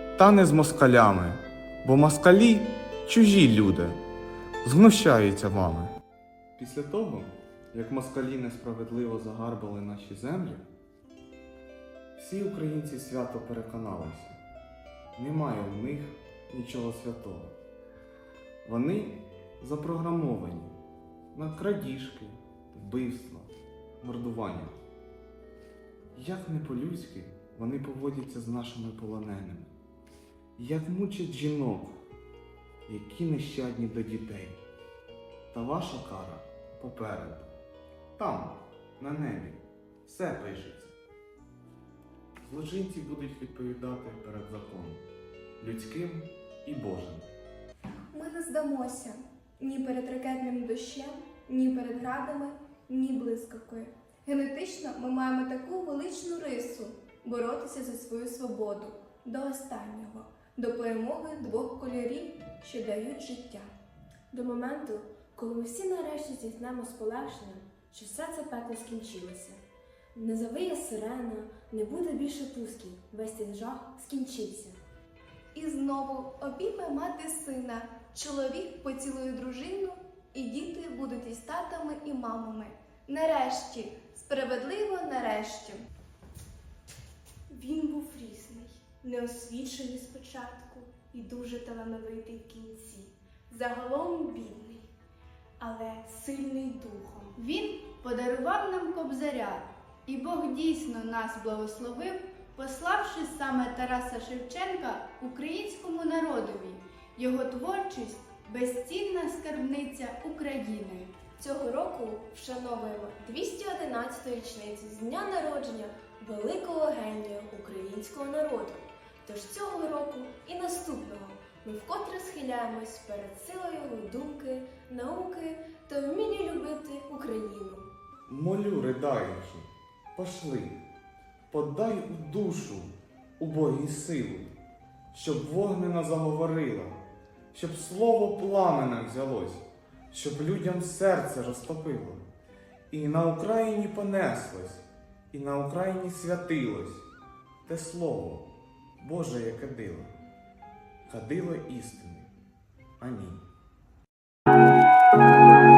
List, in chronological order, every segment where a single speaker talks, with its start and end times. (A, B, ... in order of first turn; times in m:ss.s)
0:00.2-0:04.0 A
0:04.6-0:06.0 A
0:06.6-0:10.7 A
0:12.2-0:14.4 A
0:15.2-0:17.6 A
0:18.6-0:20.8 A
0:21.3-0:24.8 A
0:26.2-0:29.7 A
0:30.6-0:32.0 A
0:32.9-0:34.6 A
0:35.5-0:37.5 A
0:38.2-0:40.9 A
0:42.4-0:45.0 A
0:45.6-0:47.3 A
0:48.1-1:03.7 B
1:04.3-1:09.6 C
1:10.2-1:14.8 C
1:15.5-1:25.9 B
1:27.5-1:34.9 D
1:35.6-1:37.4 D
1:37.4-1:51.1 E
1:51.4-2:07.9 C
2:08.3-2:10.8 A
2:11.5-2:14.5 A
2:15.1-2:17.0 A
2:17.5-2:22.2 A
2:22.9-2:27.1 A
2:27.7-2:30.2 A
2:31.1-2:32.3 A
2:33.0-2:33.4 A